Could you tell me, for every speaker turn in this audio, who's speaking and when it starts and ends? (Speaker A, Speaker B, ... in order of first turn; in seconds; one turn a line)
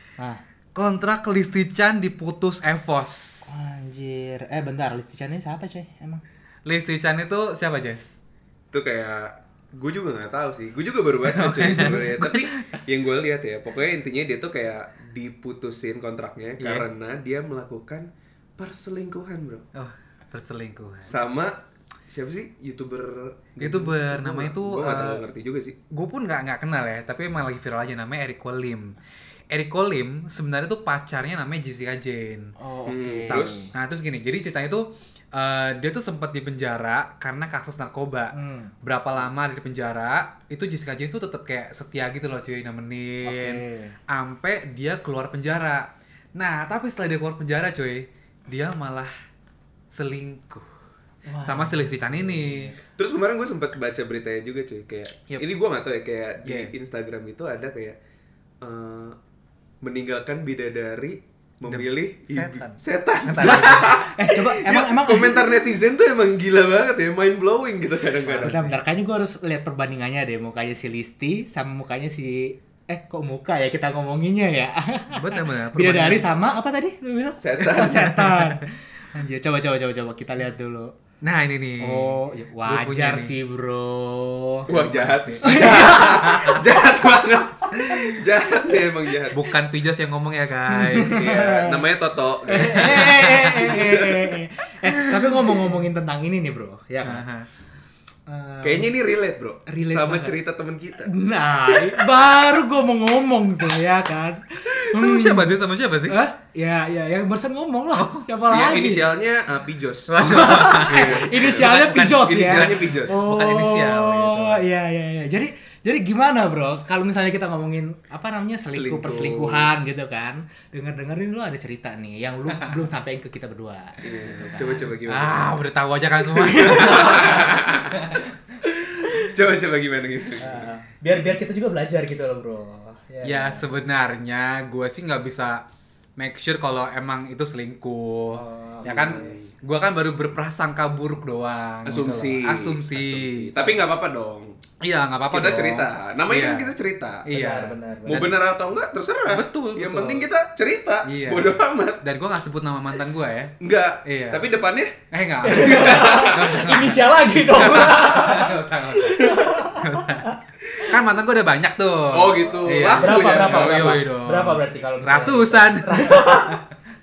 Speaker A: 0.7-3.5
Speaker B: 3.4-6.2
Speaker A: 6.7-8.1
Speaker C: 8.7-19.6
Speaker A: 11.3-12.5
Speaker A: 16.6-16.9
Speaker A: 19.7-21.2
Speaker C: 21.1-25.8
Speaker A: 23.6-25.2
Speaker A: 25.9-28.9
Speaker A: 29.5-32.5
Speaker B: 32.6-33.7
Speaker C: 32.9-33.6
Speaker A: 33.3-49.1
Speaker B: 38.3-38.7
Speaker B: 43.2-43.9
Speaker A: 49.9-50.7
Speaker B: 51.2-52.7
Speaker A: 51.4-52.8
Speaker C: 52.9-58.0
Speaker A: 56.4-56.7
Speaker C: 58.6-59.2
Speaker C: 59.8-68.7
Speaker A: 61.7-64.0
Speaker B: 63.4-65.5
Speaker A: 68.2-68.7
Speaker B: 68.4-80.9
Speaker A: 75.1-76.3
Speaker C: 77.4-78.2
Speaker A: 81.2-83.3
Speaker B: 81.8-84.7
Speaker C: 84.7-89.5
Speaker A: 84.7-86.6
Speaker B: 85.4-86.3
Speaker A: 89.3-91.3
Speaker B: 90.7-91.8
Speaker C: 91.1-93.2
Speaker B: 92.5-97.2
Speaker A: 92.6-93.9
Speaker C: 93.7-94.0
Speaker A: 94.9-95.6
Speaker A: 97.0-97.5
Speaker B: 98.3-98.9
Speaker C: 98.6-101.1
Speaker B: 99.7-100.4
Speaker B: 100.9-105.5
Speaker A: 104.8-106.2
Speaker B: 106.1-109.1
Speaker A: 108.0-108.2
Speaker C: 108.5-110.2
Speaker A: 110.1-114.6
Speaker B: 110.2-124.9
Speaker C: 110.8-113.2
Speaker C: 118.7-119.7
Speaker C: 124.0-125.5
Speaker A: 124.4-128.2
Speaker C: 126.4-128.2
Speaker C: 128.9-130.6
Speaker B: 130.4-133.7
Speaker A: 133.2-135.6
Speaker A: 136.2-143.5
Speaker B: 138.3-139.3
Speaker C: 138.8-139.5
Speaker C: 141.8-144.6
Speaker A: 144.8-146.7
Speaker C: 145.3-147.3
Speaker A: 147.2-148.3
Speaker B: 147.3-148.4
Speaker C: 148.1-152.1
Speaker A: 149.3-150.3
Speaker A: 151.0-154.5
Speaker C: 153.6-154.9
Speaker A: 155.1-166.6
Speaker B: 155.4-160.3
Speaker C: 155.5-156.6
Speaker C: 162.1-164.0
Speaker B: 162.8-166.6